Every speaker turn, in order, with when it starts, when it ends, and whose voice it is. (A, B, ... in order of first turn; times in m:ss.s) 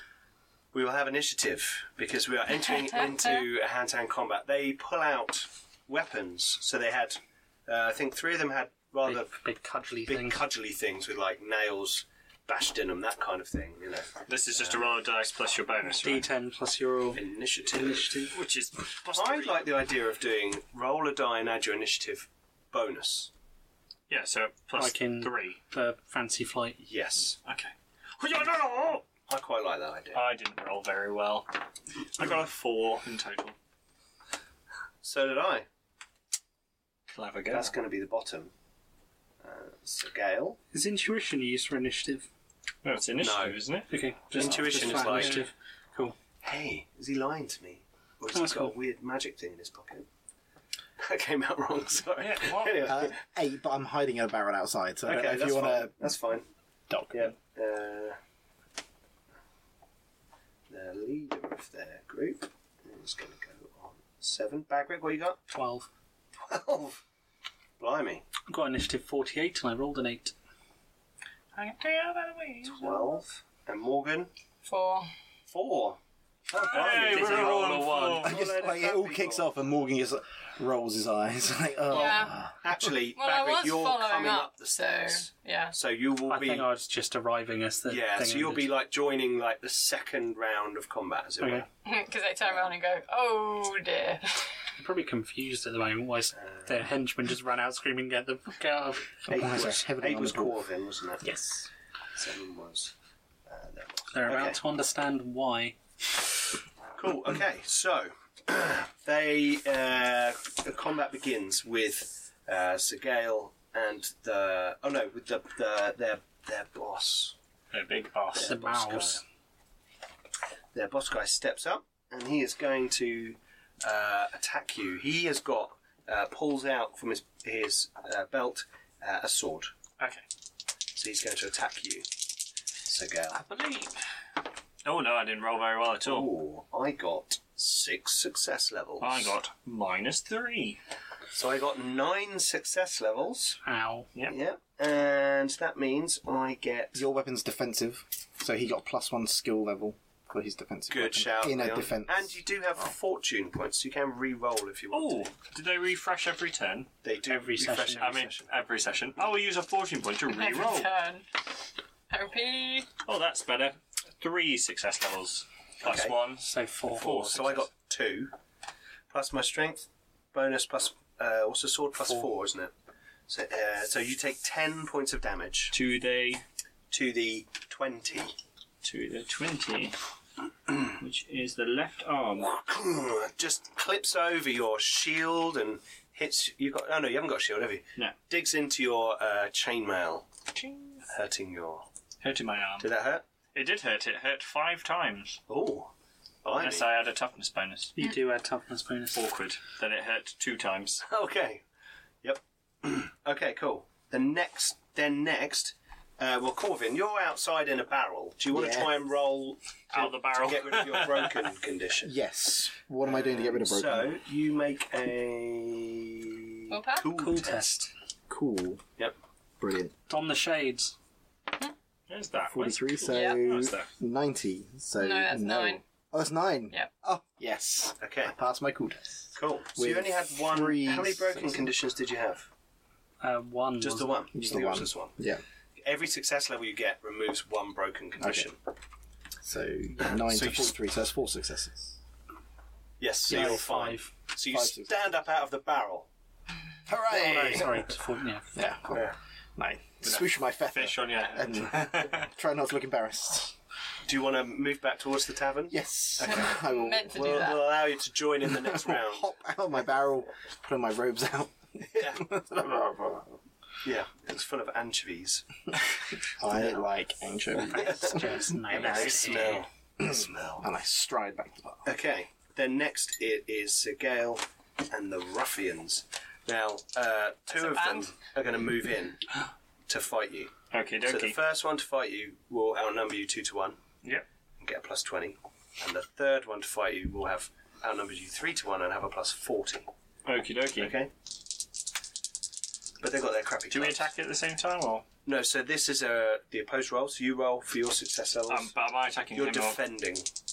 0:00.7-0:09.4 A
0:09.0-0:10.4 B
0:10.1-0:14.9 A
0:14.3-0:16.3 C
0:15.9-0:18.3 B
0:17.1-0:18.3 A
0:18.3-0:19.7 C
0:19.1-0:23.3 A
0:24.1-0:25.6 C
0:24.8-0:26.8 B
0:26.8-0:27.4 A
0:27.4-0:29.0 C
0:29.3-0:30.2 A
0:30.2-0:31.5 C
0:32.1-0:33.6 C
0:35.0-0:35.7 A
0:37.1-0:37.7 C
0:37.5-0:38.5 A
0:39.4-0:40.6 A
0:40.7-0:42.3 B
0:42.8-0:45.4 C
0:43.2-0:43.6 A
0:43.9-0:46.2 B
0:44.3-0:45.5 A
0:46.4-0:50.1 A
0:48.3-0:48.7 B
0:51.0-0:53.2 A
0:52.2-0:52.8 C
0:52.9-0:56.0 D
0:55.1-0:56.5 A
0:56.9-0:57.3 D
0:57.1-0:58.2 A
1:00.7-1:05.4 A
1:05.5-1:05.9 B
1:06.4-1:07.0 A
1:07.8-1:08.2 A
1:08.5-1:10.3 B
1:11.6-1:13.1 C
1:12.7-1:14.3 A
1:14.6-1:15.1 E
1:15.5-1:16.0 A
1:16.5-1:19.5 A
1:16.6-1:22.5 D
1:16.7-1:19.0 C
1:16.9-1:18.4 B
1:21.9-1:22.5 E
1:21.9-1:26.7 A
1:23.2-1:25.8 E
1:26.3-1:28.7 B
1:27.9-1:31.7 A
1:31.4-1:31.6 B
1:31.8-1:34.5 E
1:34.8-1:39.2 B
1:36.3-1:36.9 A
1:39.3-1:40.6 D
1:39.3-1:41.5 A
1:42.2-1:42.9 A
1:43.5-1:44.6 A
1:44.1-1:45.8 B
1:47.0-1:57.4 A
1:57.7-1:58.6 C
1:58.4-1:59.2 A
1:58.4-1:59.2 B
2:00.7-2:09.7 A
2:11.0-2:12.1 A
2:12.8-2:13.4 A
2:13.3-2:13.9 C
2:14.8-2:16.3 C
2:16.0-2:19.2 A
2:19.0-2:20.8 C
2:21.3-2:23.6 A
2:23.6-2:24.1 B
2:24.3-2:27.0 A
2:27.0-2:32.3 D
2:30.9-2:35.3 A
2:34.9-2:37.0 C
2:37.0-2:38.5 A
2:37.3-2:38.3 B
2:38.0-2:40.9 C
2:40.3-2:41.3 E
2:42.1-2:42.9 E
2:43.0-2:47.7 C
2:45.8-2:46.2 A
2:46.4-2:47.3 B
2:46.9-2:48.3 A
2:49.1-2:52.7 A
2:53.3-2:55.8 A
2:55.7-2:56.4 C
2:56.9-2:58.4 A
2:58.8-3:00.0 C
3:00.9-3:02.5 C
3:02.4-3:10.3 A
3:10.6-3:11.0 C
3:11.1-3:11.9 A
3:12.2-3:12.9 C
3:12.8-3:13.2 A
3:13.5-3:15.4 C
3:15.5-3:15.9 A
3:16.4-3:16.9 A
3:16.6-3:18.0 C
3:18.0-3:19.2 B
3:19.1-3:21.0 C
3:21.0-3:21.6 A
3:22.2-3:32.1 A
3:28.5-3:28.9 D
3:29.9-3:31.5 C
3:32.0-3:34.2 D
3:33.0-3:37.8 A
3:36.7-3:37.1 E
3:37.1-3:37.9 B
3:38.3-3:38.8 D
3:39.6-3:39.9 D
3:40.1-3:41.0 B
3:42.1-3:43.9 C
3:42.5-3:49.2 D
3:43.1-3:43.4 E
3:45.0-3:45.8 E
3:48.0-3:48.4 A
3:49.4-3:52.5 A
3:49.8-3:51.7 D
3:53.2-3:54.3 B
3:53.8-3:55.2 A
3:54.3-3:55.4 D
3:55.8-3:58.6 A
3:58.2-3:58.5 D
3:59.4-4:02.0 D
4:00.0-4:00.7 A
4:03.0-4:06.1 A
4:03.3-4:04.1 B
4:03.3-4:03.7 D
4:04.5-4:05.1 D
4:06.9-4:07.9 D
4:07.1-4:08.6 B
4:08.5-4:13.6 D
4:10.0-4:12.3 C
4:14.1-4:16.6 A
4:15.7-4:17.6 D
4:16.3-4:17.7 E
4:17.1-4:19.3 A
4:18.4-4:23.4 D
4:21.9-4:22.3 A
4:23.8-4:25.4 A
4:26.4-4:28.2 D
4:26.5-4:26.8 A
4:27.6-4:29.6 B
4:27.7-4:30.7 A
4:28.7-4:29.6 C
4:30.0-4:31.9 D
4:31.8-4:39.2 A
4:37.5-4:38.1 E
4:39.9-4:43.8 A
4:40.7-4:41.4 C
4:44.6-4:49.9 A
4:50.2-4:50.9 C
4:50.8-4:51.1 A
4:53.0-4:54.1 A
4:53.7-4:55.1 C
4:55.3-4:58.7 A
4:58.5-4:59.8 C
4:59.3-5:00.3 A